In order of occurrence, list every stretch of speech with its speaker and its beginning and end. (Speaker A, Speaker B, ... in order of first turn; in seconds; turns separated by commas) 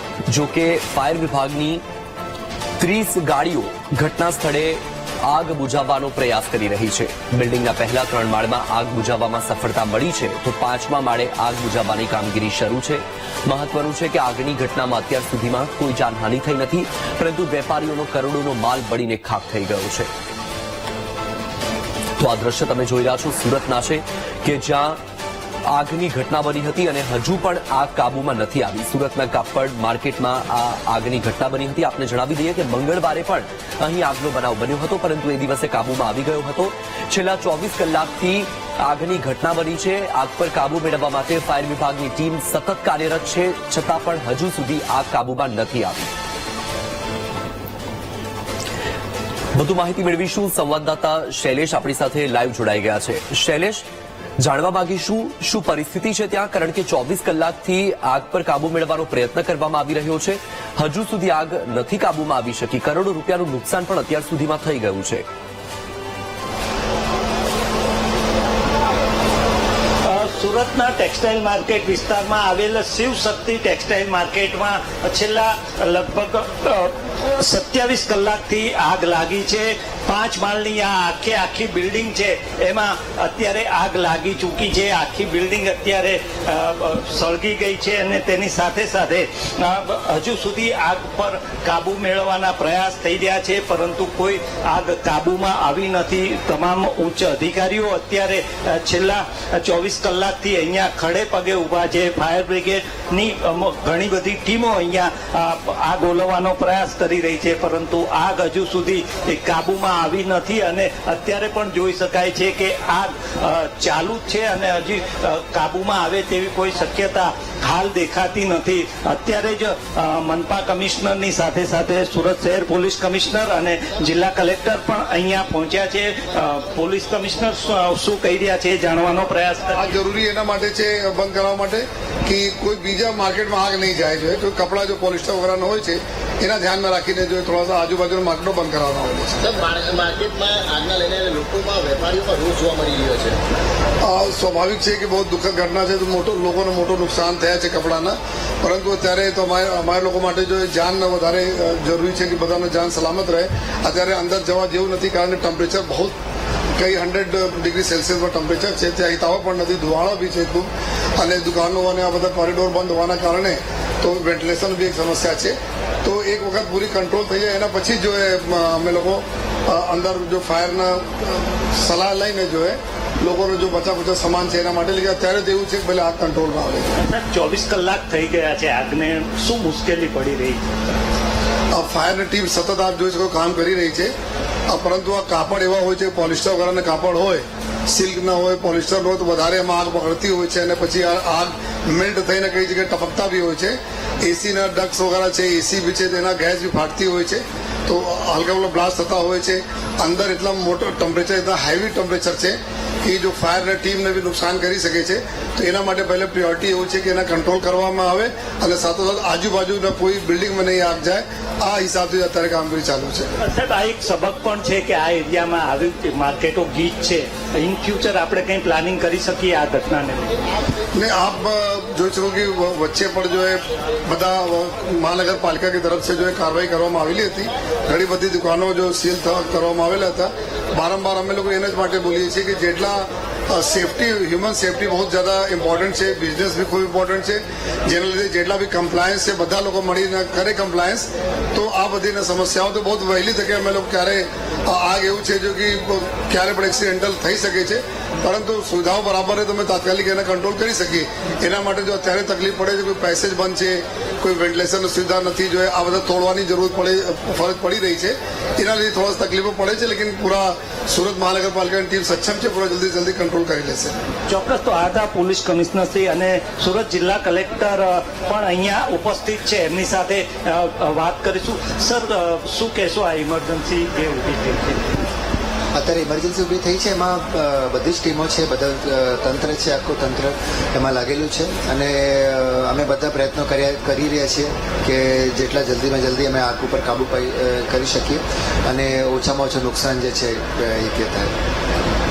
Speaker A: 0.3-1.8, Speaker A: 2.8-20.1, Speaker A: 22.2-25.0, Speaker A: 25.7-46.1, Speaker A: 49.5-53.8, Speaker A: 54.4-65.2, Speaker B: 70.0-129.8, Speaker C: 129.8-139.6, Speaker D: 139.8-143.3, Speaker C: 144.0-156.1, Speaker C: 156.8-176.9, Speaker B: 176.9-180.9, Speaker C: 181.7-184.1, Speaker C: 184.7-213.3, Speaker B: 213.4-220.4, Speaker C: 220.9-263.9, Speaker B: 264.3-274.8, Speaker E: 275.7-291.3